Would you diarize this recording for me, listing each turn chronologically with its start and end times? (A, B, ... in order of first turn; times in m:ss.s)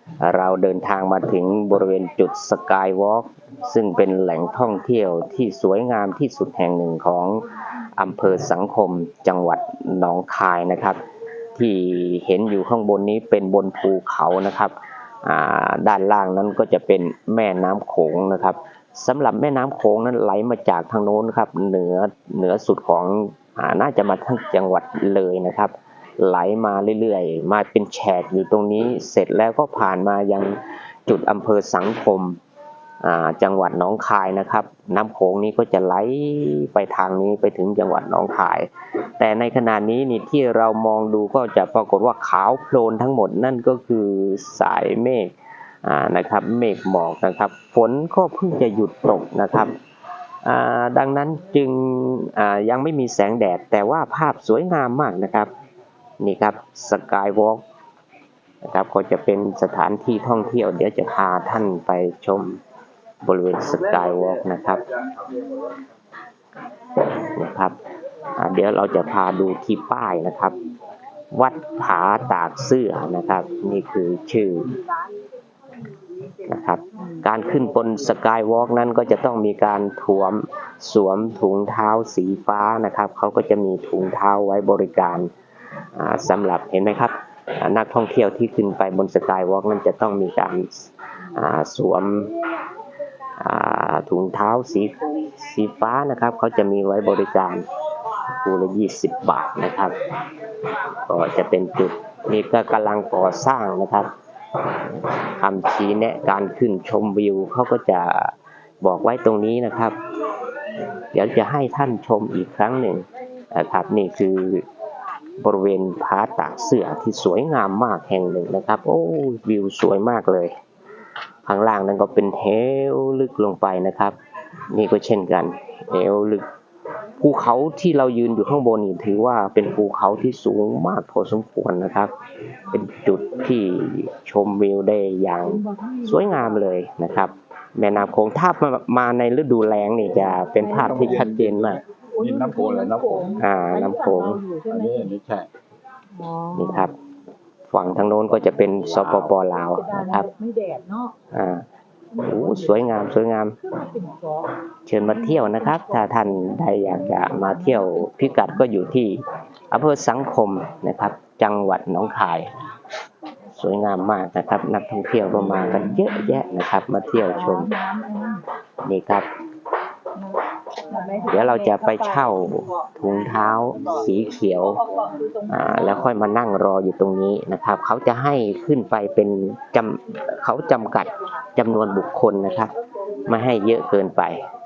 0:00.2-0:11.0 A
0:11.5-0:32.4 A
0:33.0-0:49.7 A
0:50.4-0:55.5 A
0:56.2-0:57.6 A
0:58.6-1:02.6 A
1:03.2-1:04.8 A
1:07.2-1:07.8 A
1:08.4-1:10.6 A
1:11.3-1:14.7 A
1:16.5-1:25.3 A
1:26.0-1:32.4 A
1:33.4-1:37.7 A
1:38.3-1:40.0 A
1:40.9-1:44.1 A
1:44.7-1:50.0 A
1:51.1-1:54.6 A
1:55.4-2:00.5 A
2:01.4-2:04.1 A
2:04.7-2:06.4 A
2:07.2-2:12.1 A
2:12.7-2:21.8 A
2:15.4-2:16.6 B
2:20.6-2:21.3 B
2:20.7-2:23.4 C
2:22.1-2:25.1 B
2:23.4-2:24.4 A
2:24.7-2:25.5 C
2:26.1-2:26.9 B
2:26.5-2:26.9 A
2:27.7-2:30.3 A
2:29.7-2:31.2 B
2:31.3-2:31.7 A
2:32.1-2:32.8 B
2:32.2-2:33.6 A
2:33.6-2:34.5 B
2:34.9-2:42.5 A
2:35.0-2:38.4 B
2:43.5-2:47.7 A
2:47.3-2:48.4 B
2:48.8-2:49.2 A
2:50.2-2:52.4 B
2:51.3-2:54.8 A
2:54.9-2:56.0 B
2:55.5-3:02.7 A
3:03.3-3:04.4 A